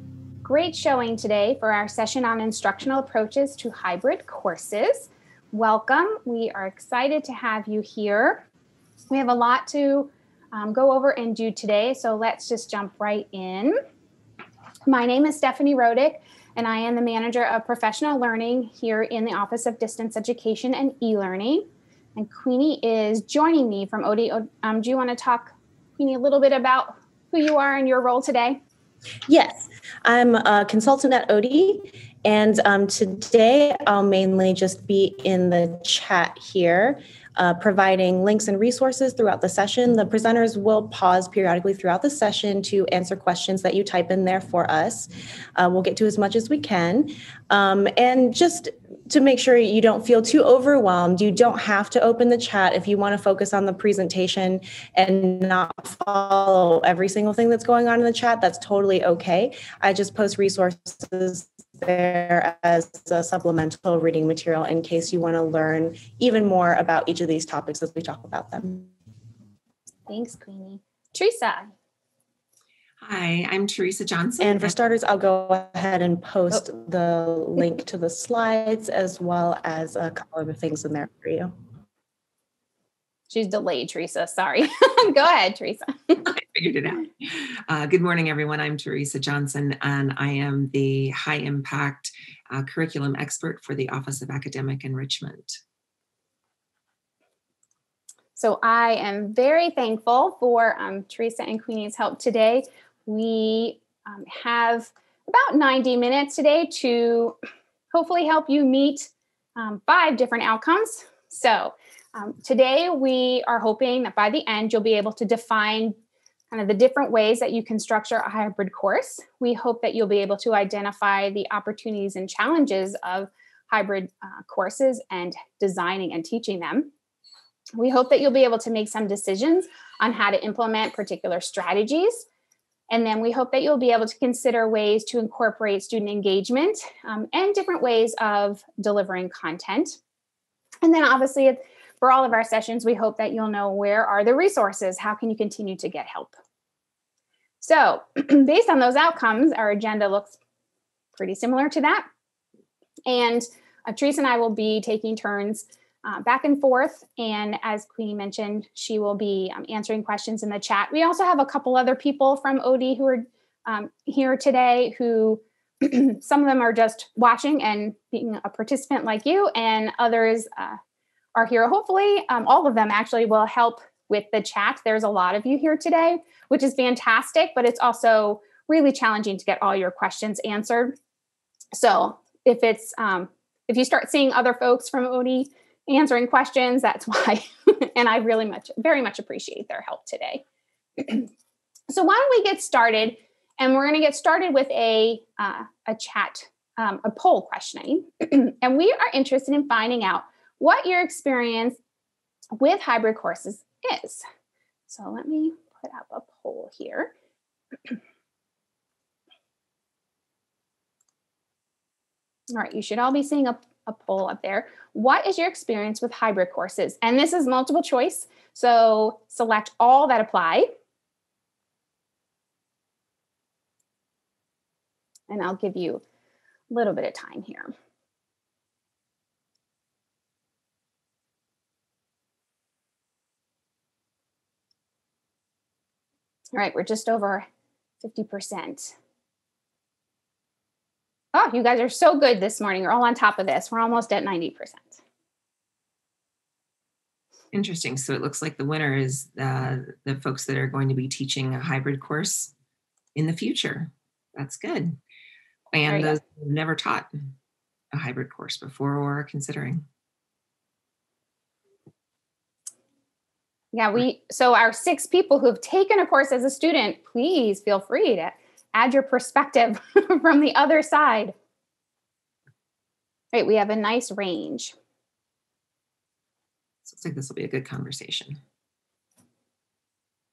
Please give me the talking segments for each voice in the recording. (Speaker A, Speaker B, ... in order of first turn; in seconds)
Speaker A: 0.4-8.4, 9.1-13.8, 14.9-28.6, 70.1-71.7, 83.3-86.2, 98.3-107.3, 107.9-115.9, 116.5-126.9, 127.8-132.2, 132.9-140.0, 140.8-146.3, 147.6-150.3, 151.2-152.1, 153.1-170.8, 171.3-180.9, 181.7-190.4, 191.0-191.3, 191.9-201.8, 202.6-204.2, 204.9-207.1, 212.5-220.7, 225.3-226.0, 226.7-227.7, 236.6-237.4, 238.0-238.9, 241.3-245.0, 255.9-256.2, 263.7-271.3, 273.3-274.7
Speaker B: 29.3-68.9, 74.4-81.5
Speaker C: 73.0-74.7, 86.2-95.6, 247.5-252.5, 253.2-255.0, 255.7-257.3, 257.9-259.8, 276.8-278.4